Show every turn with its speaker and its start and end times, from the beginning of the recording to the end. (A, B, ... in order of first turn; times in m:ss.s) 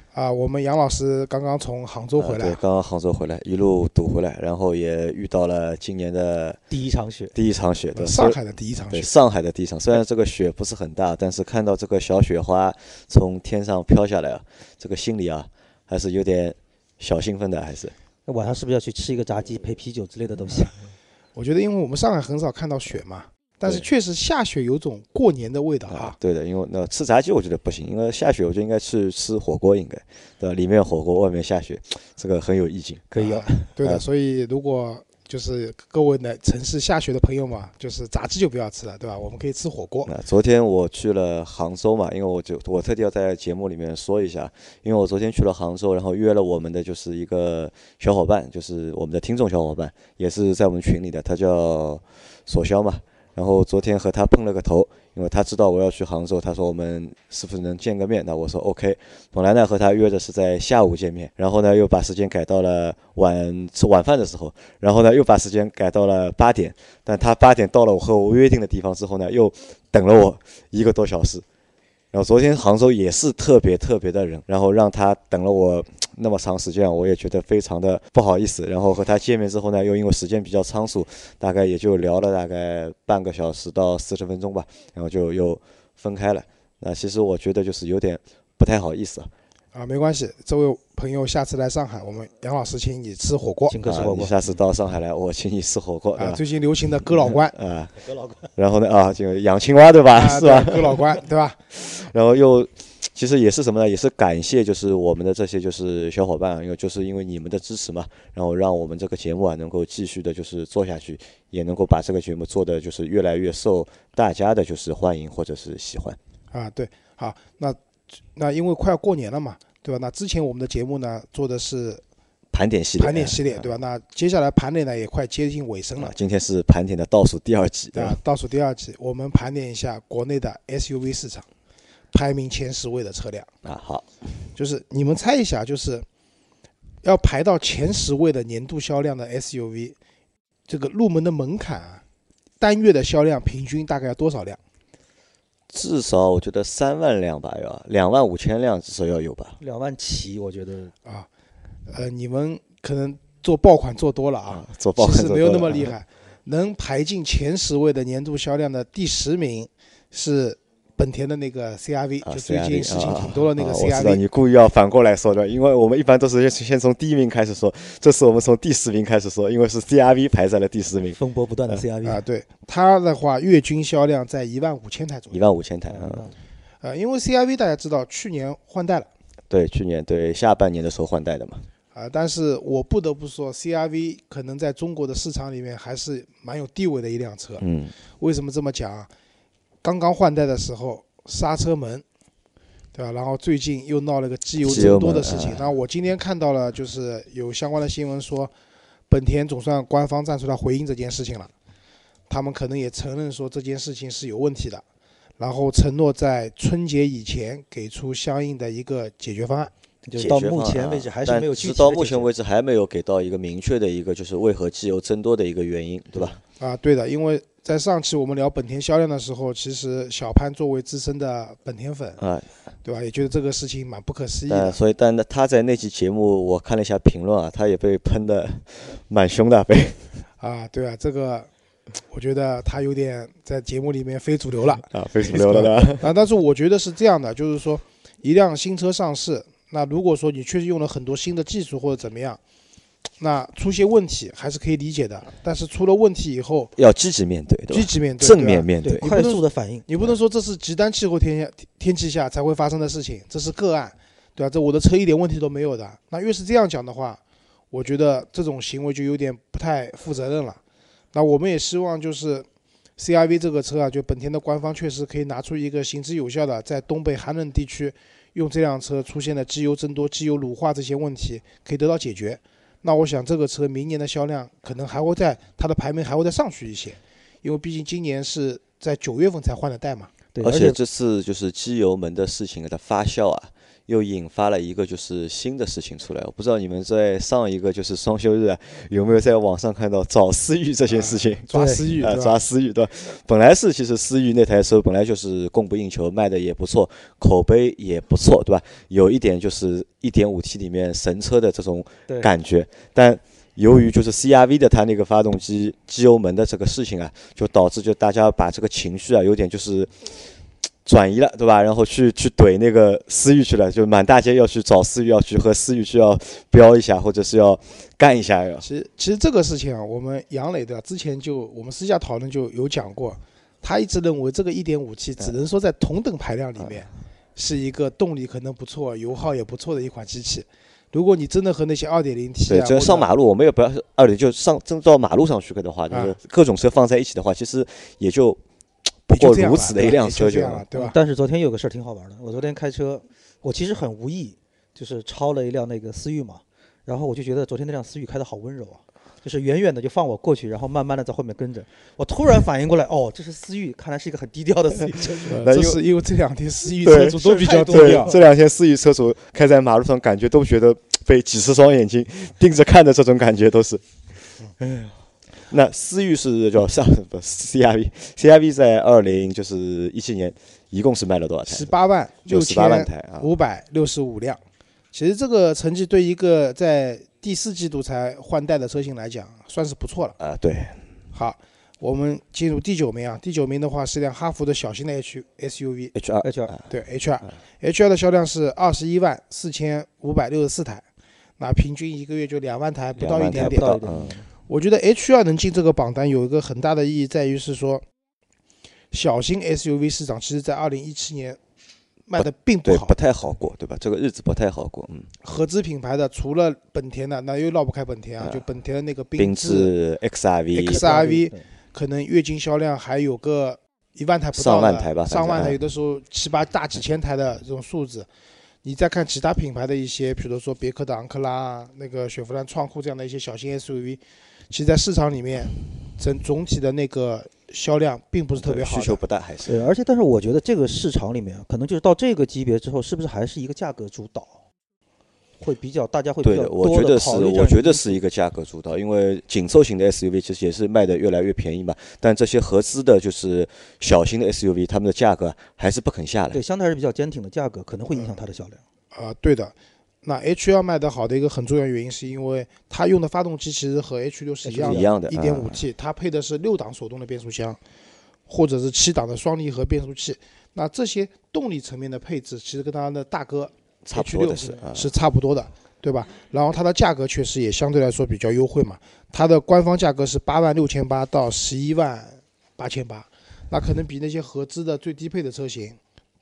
0:00.1-0:02.6 A
0:02.2-0:06.6 B
0:06.7-0:07.3 C
0:07.3-0:08.4 B
0:07.9-0:09.1 A
0:08.9-0:17.9 B
0:18.2-0:20.7 C
0:21.4-0:26.2 A
0:25.9-0:34.0 B
0:33.2-0:40.1 A
0:40.0-1:11.4 B
1:12.1-1:29.3 B
1:29.7-1:33.8 A
1:33.7-1:34.4 C
1:33.8-1:36.4 B
1:36.2-1:37.5 A
1:37.1-1:38.0 B
1:38.5-1:41.2 B
1:40.1-1:41.6 A
1:41.7-1:56.2 B
1:56.5-1:57.8 A
1:58.3-2:02.0 A
2:02.5-2:03.8 B
2:03.0-2:06.1 A
2:06.0-2:08.2 B
2:07.9-2:11.4 A
2:12.1-2:13.5 A
2:13.6-2:14.1 B
2:14.6-2:16.0 A
2:17.0-2:20.0 A
2:20.7-2:22.0 A
2:22.6-2:24.6 A
2:25.7-2:29.6 B
2:29.6-2:30.9 C
2:31.9-2:44.2 A
2:34.5-2:35.9 B
2:42.2-2:51.8 B
2:51.2-2:52.2 C
2:52.0-2:55.4 A
2:55.3-2:56.3 B
2:55.9-2:56.3 C
2:56.8-2:59.1 A
2:59.5-3:01.6 B
3:01.9-3:07.6 A
3:07.6-3:07.9 B
3:08.2-3:09.1 A
3:09.8-3:12.0 A
3:12.9-3:18.5 A
3:14.6-3:15.7 B
3:19.1-3:21.5 A
3:22.3-3:24.8 A
3:25.4-3:29.7 A
3:30.0-3:32.3 C
3:30.2-3:36.4 B
3:36.6-3:42.2 A
3:42.2-3:42.5 B
3:42.8-3:44.8 A
3:44.5-3:50.1 B
3:50.4-3:51.5 A
3:52.1-4:02.4 A
3:54.9-3:56.1 B
4:03.2-4:06.7 A
4:06.8-4:09.0 B
4:07.7-4:20.6 A
4:08.8-4:09.8 C
4:21.1-4:22.4 A
4:23.0-4:40.1 A
4:40.3-4:40.8 C
4:40.4-5:10.1 B
4:50.9-4:52.4 A
4:51.5-4:51.9 C
5:10.8-5:18.6 B
5:18.6-5:33.1 A
5:32.5-5:38.4 B
5:35.9-5:36.2 A
5:39.1-5:40.6 B
5:39.1-5:41.0 A
5:40.7-5:55.4 C
5:55.3-5:58.1 A
5:55.3-5:55.8 B
5:56.8-6:03.8 B
5:56.9-5:58.2 C
6:04.6-6:04.9 B
6:05.5-6:11.7 B
6:11.5-6:14.4 A
6:12.3-6:13.3 B
6:14.9-6:20.2 A
6:20.2-6:20.8 B
6:21.1-6:25.9 A
6:25.9-6:26.6 B
6:26.2-6:26.6 C
6:26.7-6:30.8 A
6:31.4-6:33.8 A
6:33.0-6:34.1 B
6:33.2-6:34.2 C
6:34.5-6:37.8 A
6:38.9-6:41.4 A
6:42.1-6:43.0 A
6:42.2-6:45.1 B
6:45.2-6:49.7 A
6:49.2-6:50.8 B
6:50.5-6:58.1 A
6:50.7-6:51.4 C
6:54.4-6:55.6 B
6:58.6-7:09.0 A
7:08.3-7:09.6 B
7:09.4-7:14.4 C
7:15.4-7:18.0 C
7:16.2-7:26.4 B
7:26.3-7:28.6 C
7:28.9-7:37.6 A
7:34.4-7:34.9 C
7:34.6-7:35.6 B
7:38.3-7:55.8 A
7:43.8-7:44.9 B